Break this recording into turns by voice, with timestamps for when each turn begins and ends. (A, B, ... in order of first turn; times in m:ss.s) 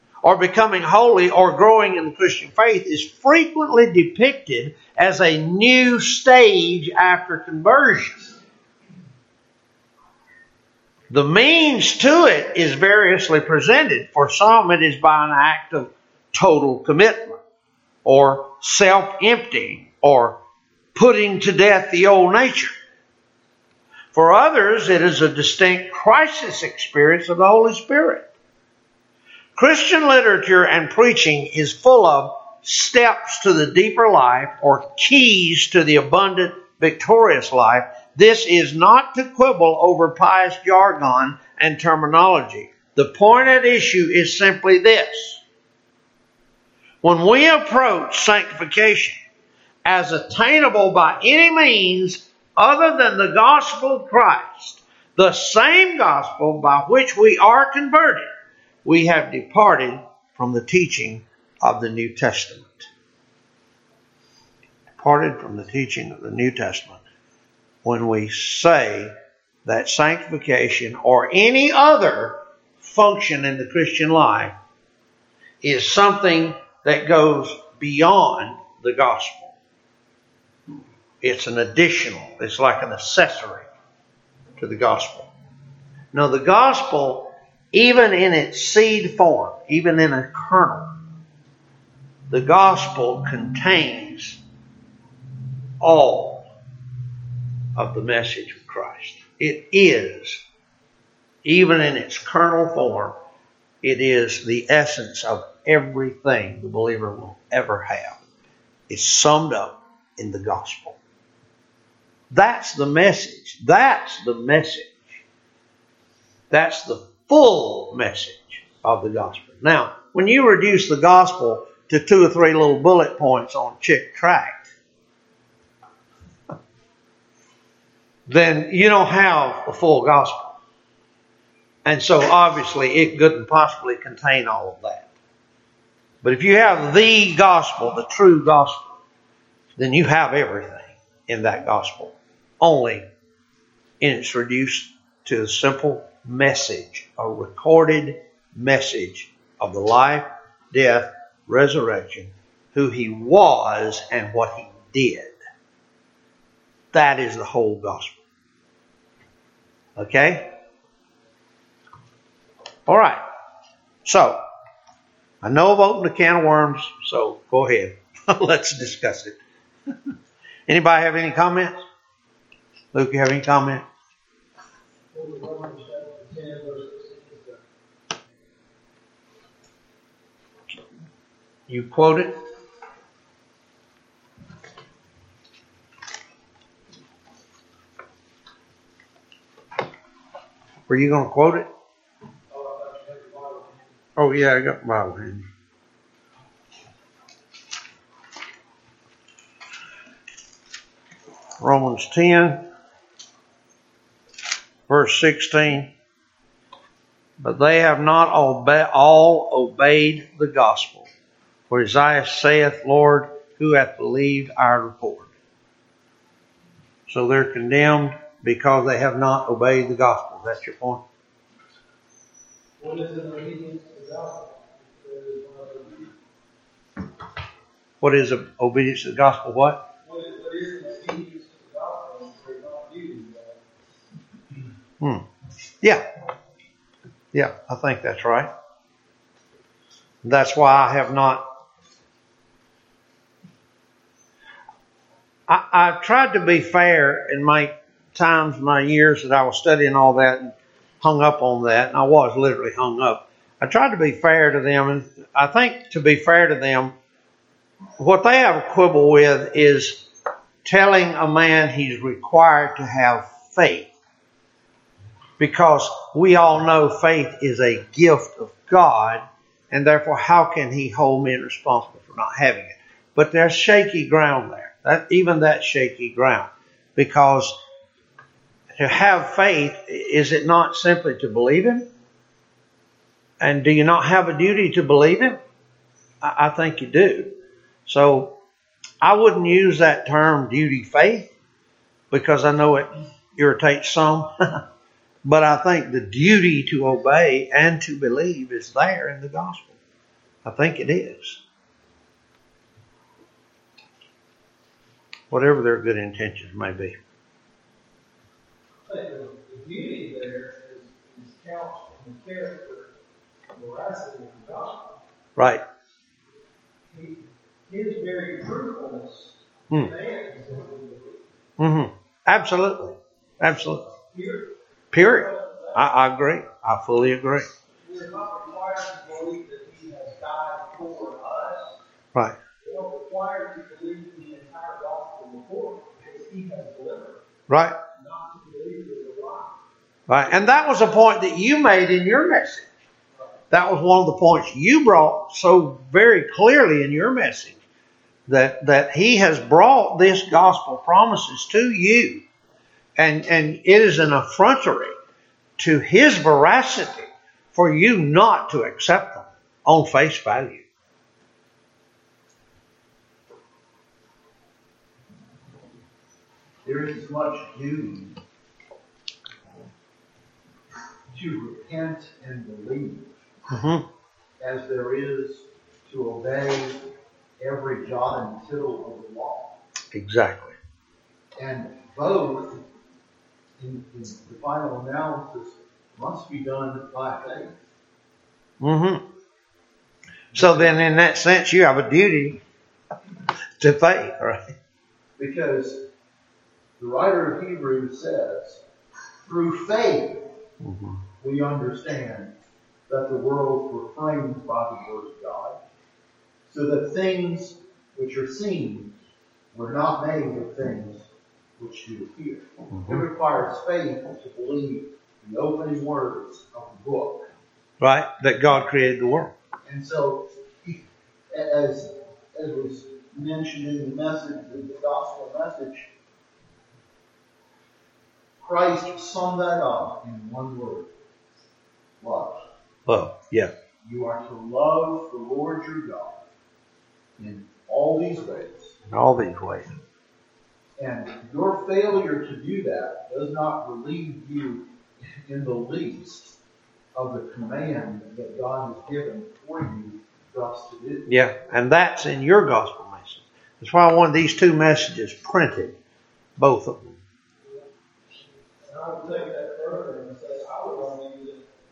0:00.2-0:08.3 A
0:11.1-0:17.4 A
0:18.0-0:20.4 A
0:20.9-0:22.7 A
0:24.1-0:28.2 A
0:29.5-0:45.4 A
0:47.0-0:49.2 A
0:49.8-0:58.3 A
0:58.8-1:02.9 A
1:05.0-1:07.0 A
1:07.8-1:09.1 A
1:09.6-1:14.5 A
1:15.6-1:19.5 A
1:21.2-1:23.6 A
1:24.6-1:25.3 A
1:26.1-1:30.9 A
1:32.3-1:34.4 A
1:35.8-1:36.5 A
1:37.7-1:40.4 A
1:41.4-1:43.2 A
1:43.8-1:48.2 A
1:48.9-1:51.0 A
1:52.3-1:55.1 A
1:56.5-2:04.7 A
2:08.3-2:10.6 A
2:11.8-2:15.1 A
2:16.2-2:18.9 A
2:19.8-2:23.0 A
2:24.0-2:35.3 A
2:36.9-2:38.2 A
2:40.0-2:40.5 A
2:42.9-2:43.2 A
2:44.0-2:44.4 A
2:45.4-2:49.4 A
2:50.7-2:51.8 A
2:52.9-2:53.8 A
2:55.1-2:57.6 B
3:01.7-3:02.3 A
3:10.9-3:11.7 A
3:12.5-3:13.9 B
3:14.2-3:15.4 A
3:21.6-3:22.6 A
3:24.9-3:25.9 A
3:27.4-3:31.1 A
3:31.7-3:35.3 A
3:37.1-3:41.0 A
3:42.8-3:46.1 B
3:48.0-3:49.8 A
3:50.0-3:53.6 B
3:57.3-3:58.5 A
4:00.2-4:01.4 A
4:05.5-4:16.9 A
4:18.0-4:20.1 A
4:20.6-4:23.9 A
4:25.4-4:37.6 A
4:38.7-4:41.8 A
4:43.4-4:45.4 A
4:46.2-4:47.3 A
4:47.8-4:48.4 A
4:49.0-4:51.3 A
4:52.1-4:54.3 A
4:55.2-4:59.7 A
5:00.4-5:01.4 A
5:05.3-5:07.0 A
5:08.8-5:12.9 B
5:13.5-5:14.9 B
5:16.9-5:21.2 B
5:21.6-5:23.9 A
5:24.1-5:25.8 B
5:24.9-5:27.5 A
5:27.8-5:31.7 B
5:32.6-5:37.2 B
5:37.5-5:37.8 A
5:38.0-5:39.5 B
5:40.1-5:42.7 A
5:43.5-5:47.6 A
5:48.3-5:52.2 A
5:53.0-5:54.9 A
5:55.6-6:00.6 A
6:06.6-6:08.2 C
6:11.1-6:13.1 C
6:13.5-6:13.8 A
6:14.4-6:16.9 C
6:17.4-6:19.6 C
6:19.9-6:20.5 A
6:21.4-6:22.6 C
6:23.6-6:27.6 C
6:28.6-6:29.0 A
6:30.3-6:32.4 A
6:33.6-6:34.4 A
6:35.2-6:35.8 C
6:36.8-6:38.6 C
6:39.2-6:40.3 C
6:40.6-6:41.0 A
6:41.2-6:42.3 C
6:42.9-6:45.6 C
6:46.5-6:48.9 C
6:49.5-6:51.1 C
6:51.6-6:57.3 C
6:52.7-6:53.0 A
6:57.8-6:59.3 A
6:59.6-7:05.9 C
7:08.4-7:10.9 C
7:12.0-7:12.4 C
7:12.9-7:13.5 A
7:13.8-7:16.2 C
7:17.2-7:18.7 C
7:18.9-7:19.7 A
7:20.8-7:26.3 C
7:26.9-7:31.0 C
7:31.1-7:35.7 A
7:36.4-7:37.0 A
7:38.6-7:41.4 B